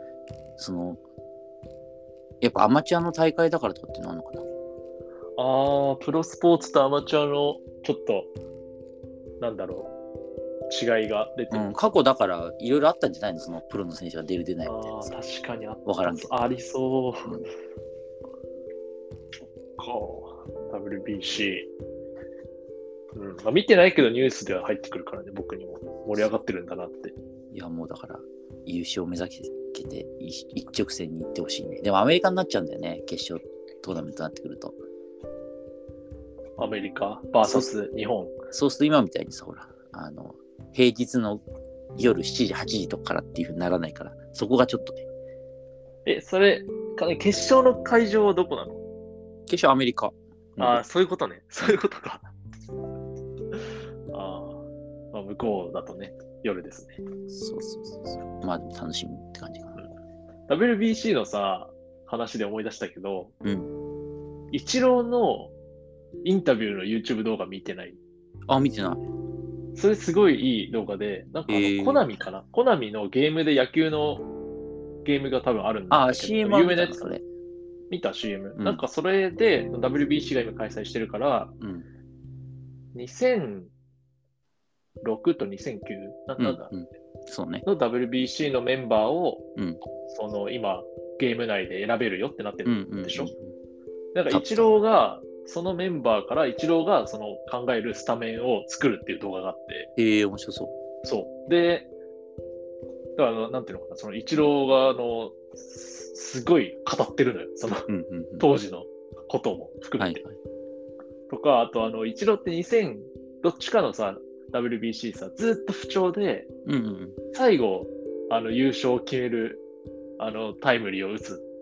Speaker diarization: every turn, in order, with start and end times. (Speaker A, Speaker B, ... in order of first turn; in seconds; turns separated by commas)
Speaker A: 0.6-1.0, Speaker A: 2.4-4.5, Speaker B: 5.4-8.3, Speaker B: 9.4-9.9, Speaker B: 10.7-11.7, Speaker A: 11.5-15.1, Speaker B: 14.7-17.5, Speaker A: 15.8-16.4, Speaker B: 19.8-21.7, Speaker B: 23.1-27.1, Speaker A: 27.5-34.8, Speaker B: 36.6-38.4, Speaker A: 38.5-41.4, Speaker A: 42.0-45.0, Speaker B: 46.1-48.8, Speaker A: 49.5-50.8, Speaker B: 50.6-52.3, Speaker B: 54.1-57.0, Speaker A: 57.3-59.8, Speaker B: 60.5-63.3, Speaker A: 63.4-63.7, Speaker B: 64.5-65.5, Speaker B: 66.2-68.0, Speaker A: 68.5-69.0, Speaker B: 69.8-74.3, Speaker A: 71.5-72.1, Speaker B: 75.0-77.2, Speaker A: 75.9-77.2, Speaker B: 77.9-81.6, Speaker A: 78.6-78.8, Speaker A: 81.6-81.9, Speaker B: 83.0-83.7, Speaker B: 85.0-86.7, Speaker A: 86.4-87.7, Speaker B: 87.7-89.4, Speaker B: 90.1-93.3, Speaker A: 92.7-93.4, Speaker B: 94.2-99.9, Speaker A: 94.3-94.7, Speaker A: 100.0-100.7, Speaker B: 101.0-101.9, Speaker B: 103.2-107.9, Speaker A: 107.9-108.5, Speaker B: 108.4-110.2, Speaker A: 110.0-110.3, Speaker B: 111.3-116.5, Speaker A: 116.7-117.2, Speaker B: 117.3-119.6, Speaker B: 120.2-121.5